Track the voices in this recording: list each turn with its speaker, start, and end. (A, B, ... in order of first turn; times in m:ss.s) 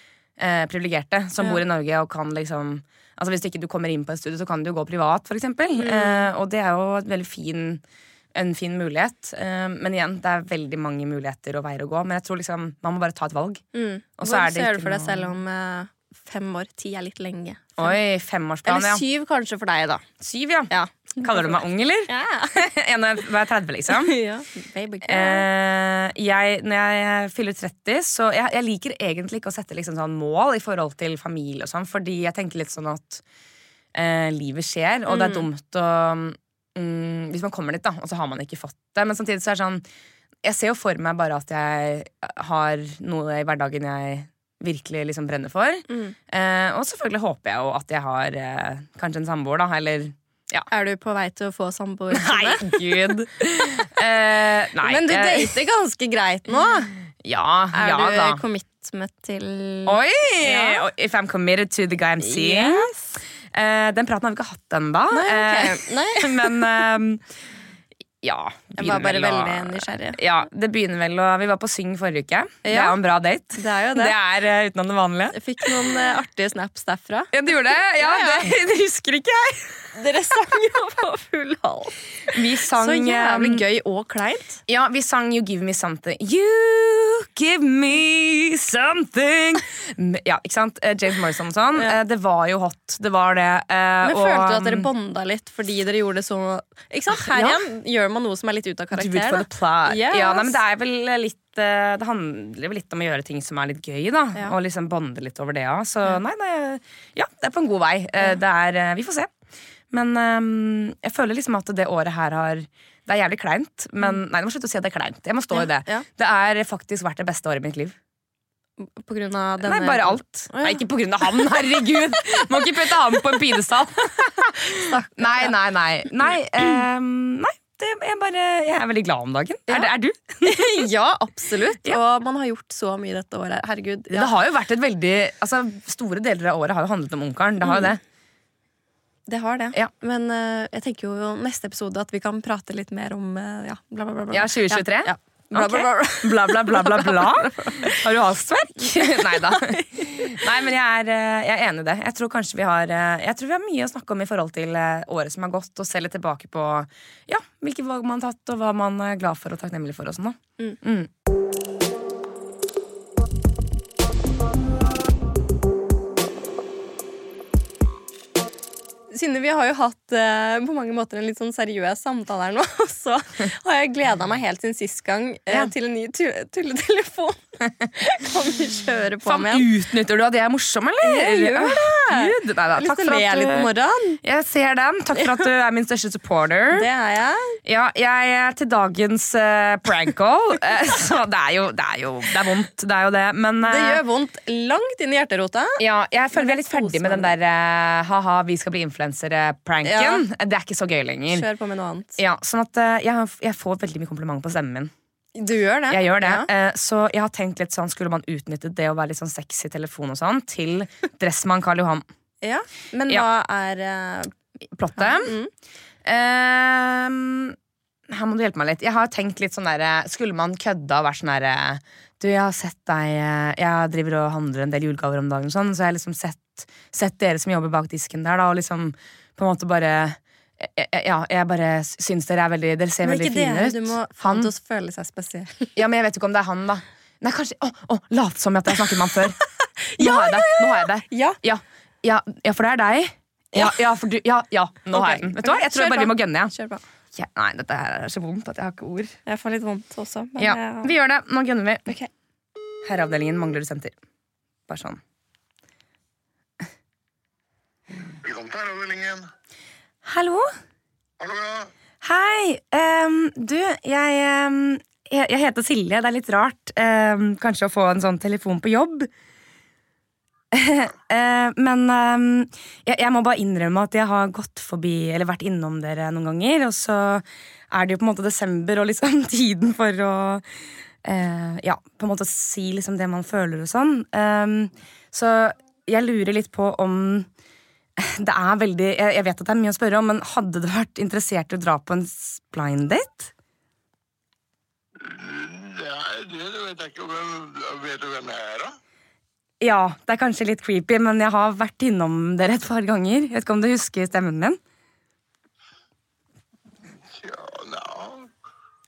0:00.4-0:07.8 A
0:05.8-0:06.3 B
0:08.4-0:13.6 A
0:13.7-0:18.0 B
0:14.2-0:15.3 A
0:17.8-0:19.0 A
0:18.6-0:20.1 B
0:20.2-0:20.7 A
0:20.7-0:22.7 B
0:21.2-0:24.2 A
0:23.9-0:25.5 B
0:25.0-0:33.2 A
0:33.9-0:39.8 A
0:35.1-0:35.5 B
0:40.4-0:50.7 A
0:45.9-0:46.2 B
0:50.7-0:52.8 B
0:52.1-0:55.6 A
0:54.8-0:57.0 B
0:57.2-0:58.4 A
0:57.7-1:00.8 B
0:59.9-1:02.9 A
1:02.2-1:03.1 B
1:03.5-1:07.3 A
1:05.1-1:06.7 B
1:08.2-1:15.9 A
1:08.8-1:10.2 B
1:12.6-1:13.0 B
1:13.5-1:14.2 B
1:15.3-1:18.6 B
1:17.3-1:19.9 A
1:20.0-1:24.6 B
1:22.3-1:23.6 A
1:24.7-1:34.9 A
1:34.0-1:40.6 B
1:37.1-1:37.6 A
1:39.0-1:49.3 A
1:49.9-1:58.0 A
1:55.5-1:56.1 B
1:58.8-2:00.8 B
1:59.6-2:10.9 A
2:04.7-2:05.6 B
2:10.4-2:14.3 B
2:14.1-2:18.0 A
2:17.6-2:17.9 B
2:19.3-2:28.1 B
2:24.3-2:41.1 A
2:28.8-2:30.5 B
2:49.1-2:59.7 B
2:59.2-3:03.7 A
3:01.0-3:04.2 B
3:04.2-3:06.9 A
3:05.2-3:05.5 B
3:06.7-3:07.6 B
3:07.6-3:14.0 A
3:13.6-3:17.3 B
3:15.8-3:21.5 A
3:19.8-3:20.2 B
3:21.3-3:22.2 B
3:22.2-3:24.9 A
3:25.4-3:26.5 B
3:25.9-3:32.0 A
3:32.4-3:34.4 B
3:34.7-3:35.4 A
3:35.0-3:35.5 B
3:36.0-3:37.6 A
3:38.1-3:54.5 A
3:53.0-3:55.8 B
3:55.8-3:59.4 A
3:59.6-4:01.4 B
4:00.0-4:06.5 A
4:03.5-4:03.8 B
4:04.9-4:06.8 B
4:07.1-4:09.2 A
4:09.3-4:10.9 B
4:10.4-4:11.9 A
4:12.8-4:14.0 A
4:14.7-4:15.0 A
4:18.1-4:19.3 C
4:20.0-4:20.5 A
4:21.2-4:21.7 C
4:22.0-4:29.1 A
4:30.5-4:40.5 A
4:41.0-4:47.3 A
4:48.0-4:53.3 A
4:55.0-4:58.7 C
4:59.6-5:04.6 A
5:07.0-5:08.3 C